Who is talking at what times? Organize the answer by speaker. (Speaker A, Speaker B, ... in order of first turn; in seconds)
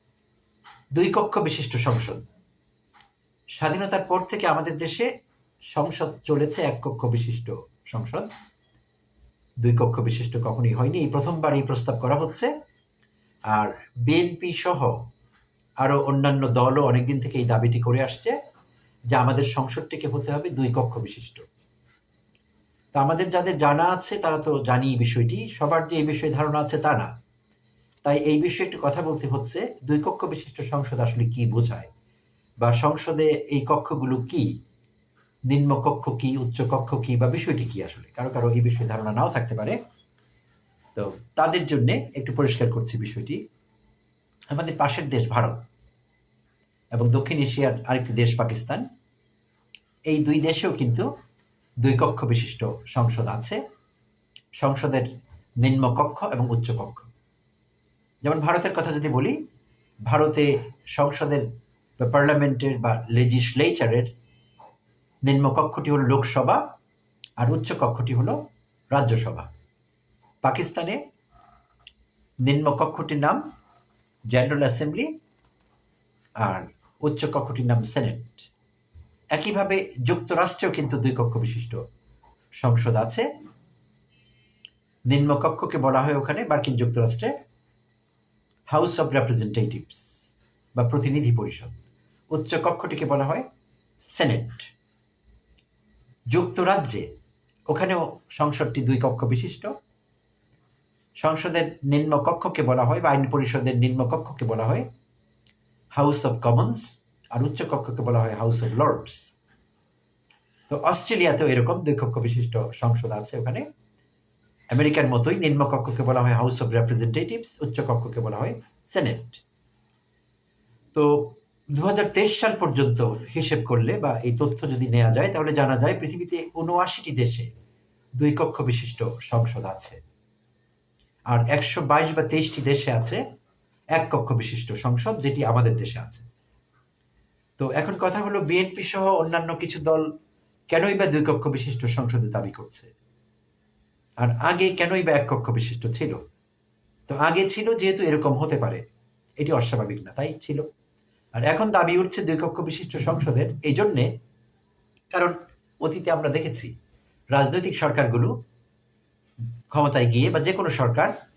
Speaker A: 0.9-2.2, 3.6-5.1, 5.7-8.3, 9.6-12.5, 13.5-15.0, 15.8-18.3, 19.1-21.4, 22.9-27.1, 28.0-31.9, 32.6-34.6, 35.5-39.8, 40.9-43.4, 44.5-45.6, 46.9-48.8, 50.1-51.1, 51.8-53.6, 54.6-55.1, 55.6-57.1, 58.2-59.4, 60.1-61.5, 62.0-64.1, 65.2-66.6, 67.4-68.4, 68.9-69.5, 70.4-71.0, 72.4-73.4, 74.3-75.1, 76.4-78.5, 79.3-81.8, 82.6-83.3, 85.1-87.3, 88.7-91.8, 92.3-93.4, 94.0-94.7, 96.3-97.1, 97.7-99.7, 101.2-104.8, 106.0-109.4, 110.7-113.6, 114.7-119.4, 120.9-127.5, 128.2-130.0, 131.3-133.2, 133.9-136.2, 137.6-140.1, 140.7-142.9, 144.2-146.2, 147.1-148.8, 149.4-150.7, 151.3-154.1, 155.1-156.7, 157.3-158.3, 159.7-161.1